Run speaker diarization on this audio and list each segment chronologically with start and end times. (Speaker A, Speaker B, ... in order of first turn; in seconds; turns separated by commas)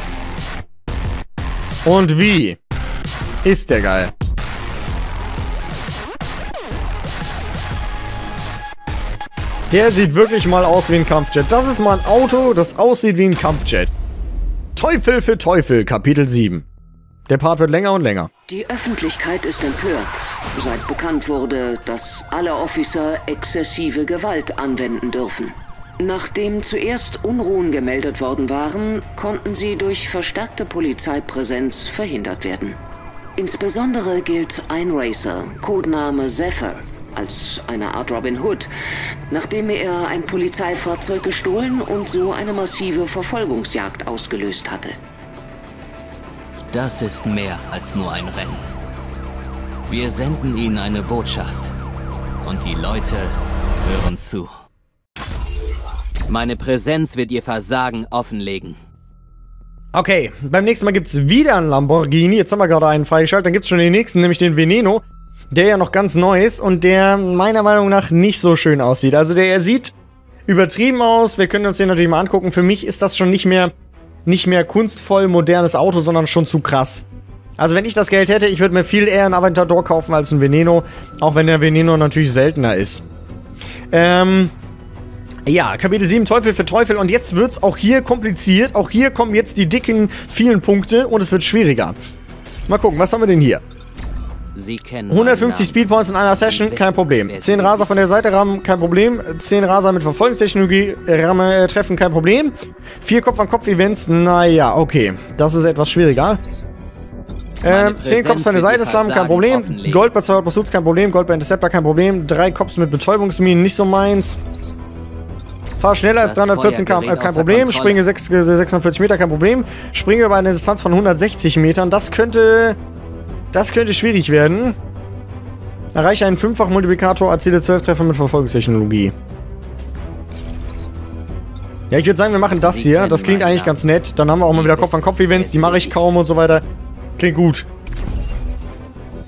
Speaker A: 1.9-2.6, Speaker A: 3.4-4.1, Speaker A: 9.7-13.9, Speaker A: 14.8-16.7, Speaker A: 17.3-18.3, Speaker B: 18.5-32.8, Speaker B: 33.4-38.7, Speaker B: 39.3-45.0, Speaker C: 46.7-48.7, Speaker C: 49.9-51.8, Speaker C: 52.4-54.5, Speaker C: 56.3-58.8, Speaker A: 59.9-69.9, Speaker A: 70.5-73.7, Speaker A: 74.3-77.0, Speaker A: 77.6-83.0, Speaker A: 83.9-84.5, Speaker A: 85.5-92.0, Speaker A: 92.7-93.6, Speaker C: 94.5-98.1, Speaker A: 95.1-106.4, Speaker A: 107.6-114.4, Speaker C: 107.6-110.1, Speaker A: 115.8-122.8, Speaker C: 116.2-118.0, Speaker A: 123.5-124.8, Speaker A: 125.9-129.1, Speaker A: 131.9-136.6, Speaker C: 132.6-136.2, Speaker A: 137.2-137.7